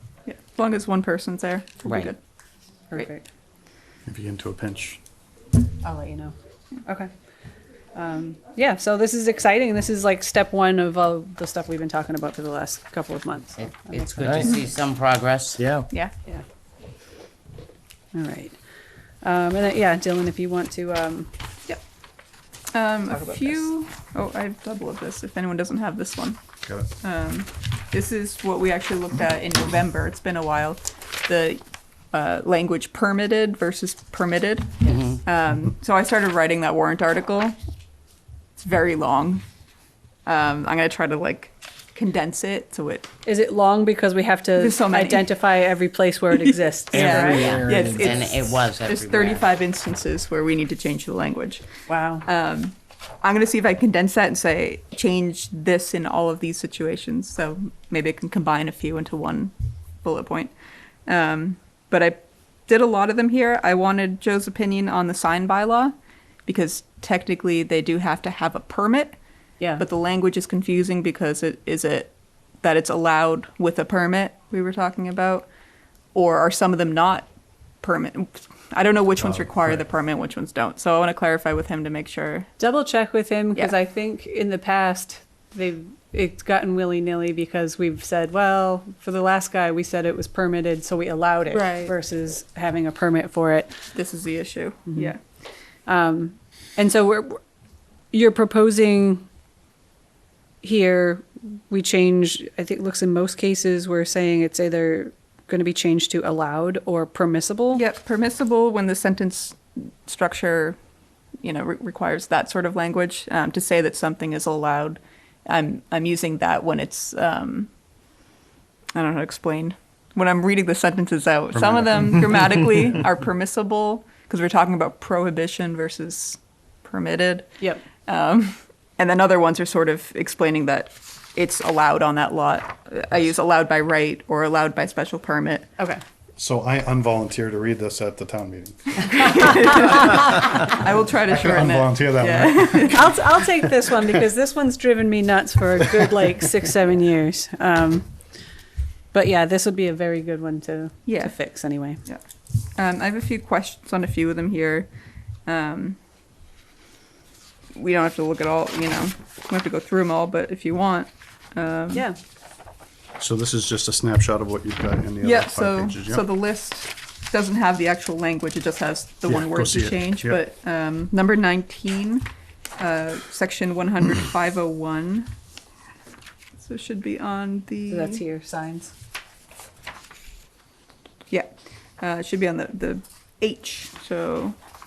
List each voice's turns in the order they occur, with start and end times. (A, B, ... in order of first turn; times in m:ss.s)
0:00.2-0:02.2 A
0:01.8-0:02.1 B
0:02.9-0:03.3 C
0:04.0-0:05.0 D
0:05.8-0:07.1 C
0:07.9-0:14.6 C
0:13.6-0:15.6 B
0:14.2-0:14.6 E
0:15.6-0:15.8 E
0:18.1-0:18.6 C
0:19.2-0:21.8 C
0:22.7-0:26.4 A
0:23.1-0:23.6 C
0:27.0-0:31.6 A
0:32.1-0:37.6 A
0:34.9-0:35.2 B
0:38.6-0:39.4 A
0:40.2-0:43.1 A
0:43.2-0:47.5 C
0:44.6-0:45.3 A
0:46.3-0:51.6 A
0:46.9-0:48.2 E
0:47.2-0:49.4 B
0:51.9-0:52.3 C
0:52.2-1:00.5 A
1:01.1-1:05.9 A
1:06.4-1:09.2 A
1:09.8-1:15.5 A
1:16.1-1:17.3 A
1:17.8-1:22.5 A
1:19.2-1:19.8 D
1:22.6-1:33.7 C
1:31.5-1:31.9 A
1:33.9-1:35.2 A
1:35.8-1:37.4 C
1:38.1-1:39.2 C
1:40.6-1:47.8 C
1:47.7-1:50.8 A
1:51.4-1:57.7 A
1:58.9-2:15.7 A
2:01.5-2:02.8 D
2:16.4-2:19.4 D
2:19.0-2:23.1 A
2:20.2-2:20.6 D
2:21.1-2:23.9 D
2:22.9-2:28.1 C
2:29.1-2:32.0 C
2:31.0-2:31.3 A
2:32.8-2:34.9 A
2:35.4-2:36.0 A
2:37.8-2:42.1 A
2:41.9-2:42.2 C
2:43.2-2:46.3 D
2:45.2-2:52.3 A
2:49.3-2:50.4 D
2:52.8-2:55.3 A
2:56.6-2:58.2 A
2:57.9-2:58.9 C
3:01.3-3:04.6 A